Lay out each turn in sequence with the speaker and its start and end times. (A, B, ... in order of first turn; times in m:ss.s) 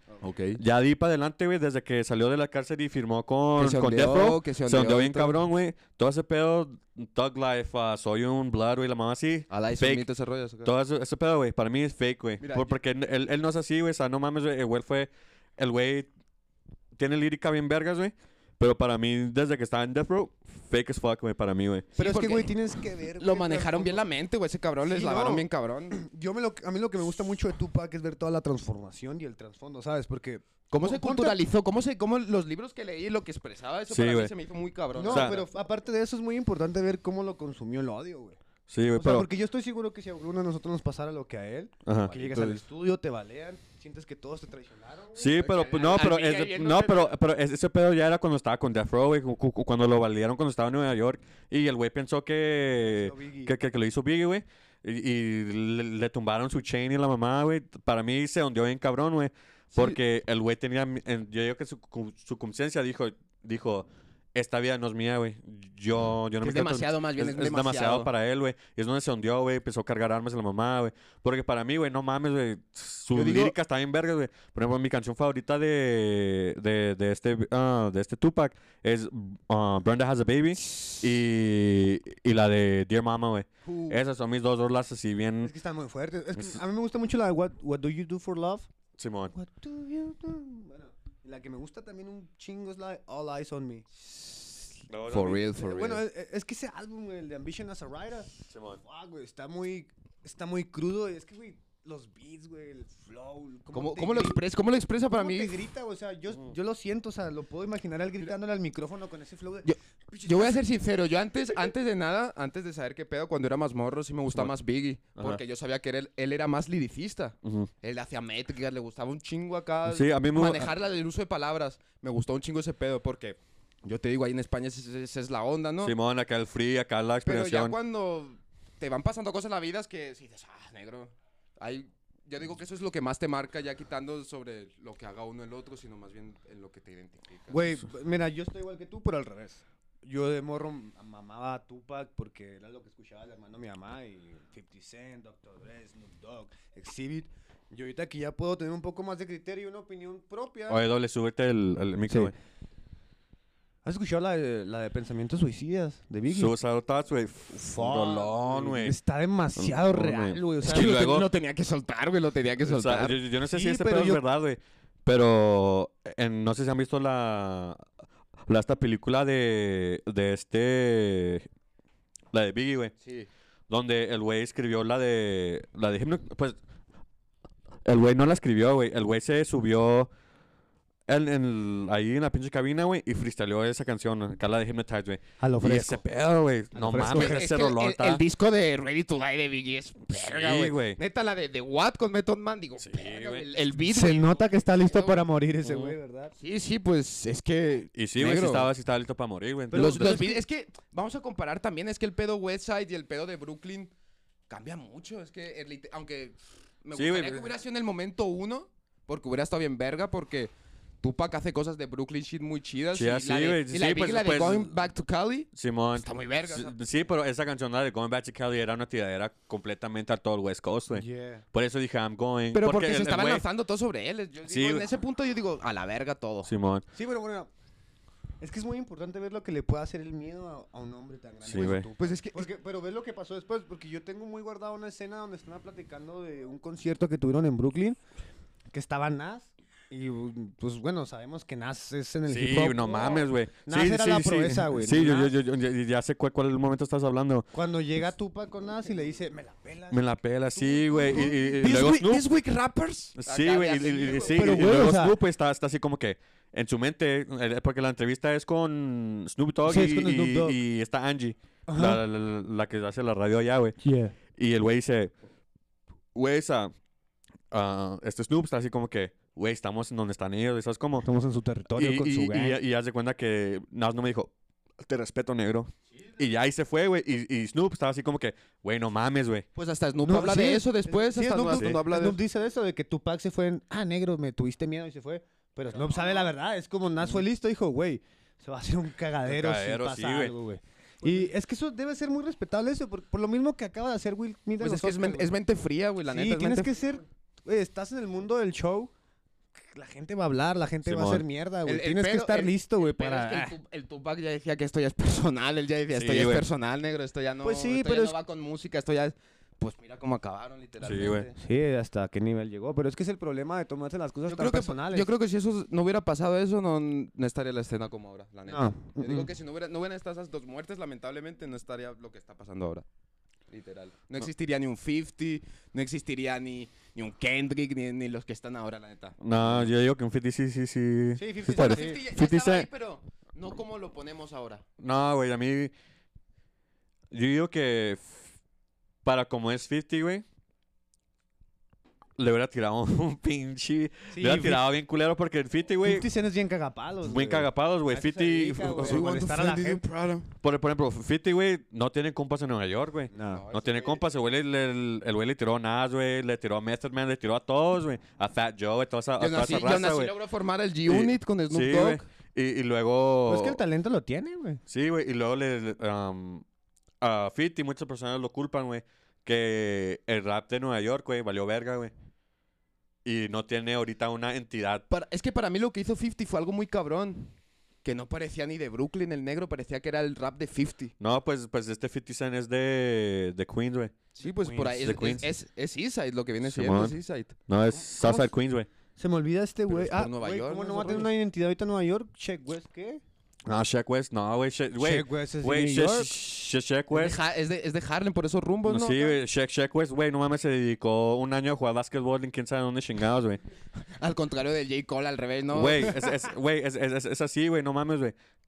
0:00.2-0:00.6 A
0:00.6-0:10.0 B
0:03.6-0:05.4 A
0:09.5-0:10.7 A
0:10.6-0:16.1 B
0:12.4-0:12.7 A
0:17.0-0:21.9 B
0:21.9-0:26.0 A
0:22.0-0:24.0 C
0:24.8-0:31.4 C
0:30.7-0:35.4 A
0:33.9-0:34.3 B
0:34.9-0:38.4 C
0:35.0-0:35.4 B
0:38.7-0:39.3 B
0:39.0-0:45.4 C
0:41.8-0:42.6 B
0:42.1-0:42.6 A
0:45.1-1:25.5 B
0:45.4-0:47.2 A
0:52.9-0:53.5 C
0:59.7-1:00.0 A
1:06.4-1:08.1 A
1:13.1-1:13.5 A
1:23.6-1:24.0 C
1:25.4-1:28.7 C
1:29.0-1:29.3 B
1:29.3-1:33.8 C
1:34.0-1:36.0 A
1:34.9-1:35.4 B
1:35.6-1:44.4 C
1:38.5-1:38.8 B
1:43.7-1:45.7 A
1:45.1-1:50.6 C
1:49.6-2:05.9 A
1:59.8-2:00.7 B
2:05.8-2:07.8 B
2:07.2-2:17.8 A
2:17.5-2:30.8 C
2:30.7-2:32.3 B
2:32.1-2:32.3 C
2:33.8-2:36.5 C
2:36.3-2:38.9 B
2:37.5-2:41.1 C
2:39.6-2:41.3 B
2:40.6-2:43.2 A
2:42.6-2:47.8 B
2:43.5-2:44.2 C
2:48.5-2:51.5 B
2:52.3-2:52.9 B
2:53.0-2:53.3 A
2:53.7-2:56.6 B
2:57.8-3:00.1 B
3:01.1-3:08.2 B
3:05.4-3:06.0 C
3:06.7-3:07.4 C
3:07.0-3:15.2 A
3:10.2-3:11.0 B
3:12.8-3:13.4 B
3:13.8-3:16.3 C
3:15.6-3:15.9 B
3:16.4-3:18.7 A
3:17.9-3:20.2 B
3:19.7-3:20.4 C
3:19.7-3:23.9 A
3:24.5-3:36.7 A
3:26.9-3:27.5 B
3:32.9-3:34.8 B
3:35.5-3:43.4 B
3:40.9-3:41.4 C
3:42.5-3:46.5 A
3:44.4-3:44.9 B
3:46.4-3:46.8 B
3:46.9-3:47.5 C
3:48.4-3:58.0 C
3:51.4-3:51.8 B
3:51.6-3:52.4 A
3:58.7-4:05.3 C
4:02.3-4:07.5 B
4:07.5-4:10.0 C
4:09.9-4:12.3 B
4:10.6-4:12.6 C
4:11.6-4:14.9 A
4:13.2-4:23.8 B
4:14.3-4:15.2 C
4:19.6-4:20.6 C
4:21.7-4:22.0 C
4:23.8-4:24.1 C
4:24.3-4:25.1 B
4:26.1-4:26.7 B
4:27.5-4:31.0 B
4:31.0-4:32.6 C
4:31.8-4:39.4 B
4:39.6-4:42.2 A
4:40.0-4:55.3 C
4:45.8-4:46.3 A
4:49.2-4:50.3 B
4:54.6-4:56.8 A
4:56.1-4:58.9 C
4:59.6-5:03.5 C
5:00.8-5:01.2 B
5:01.6-5:11.3 A
5:05.9-5:06.4 B
5:07.4-5:08.2 C
5:10.8-5:11.3 B
5:11.4-5:15.1 C
5:14.3-5:22.8 A
5:18.5-5:19.3 C
5:23.5-5:29.7 A
5:29.2-5:32.7 B
5:31.2-5:32.0 C
5:31.4-5:34.6 A
5:34.8-5:35.7 B
5:37.1-5:38.2 B
5:39.0-5:40.2 B
5:42.2-5:46.1 B
5:44.1-5:44.7 C
5:45.8-5:49.8 C
5:47.0-5:49.0 B
5:48.8-5:50.3 A
5:50.4-6:00.1 B
5:53.1-5:53.4 C
5:53.3-5:54.0 A
5:59.2-6:02.0 A
6:00.9-6:03.6 B
6:03.2-6:04.6 C
6:04.7-6:06.4 B
6:07.0-6:11.9 B
6:13.0-6:14.8 B
6:14.9-6:20.9 A
6:21.0-6:23.9 B
6:24.2-6:27.3 A
6:24.2-6:24.9 C
6:24.7-6:25.3 B
6:26.4-6:28.7 B
6:27.7-6:28.3 C
6:29.0-6:33.0 C
6:29.7-6:31.1 A
6:33.4-6:37.2 B
6:34.8-6:36.1 C
6:36.9-6:39.2 A
6:38.6-6:43.4 B
6:44.0-6:46.3 A
6:45.5-6:48.1 B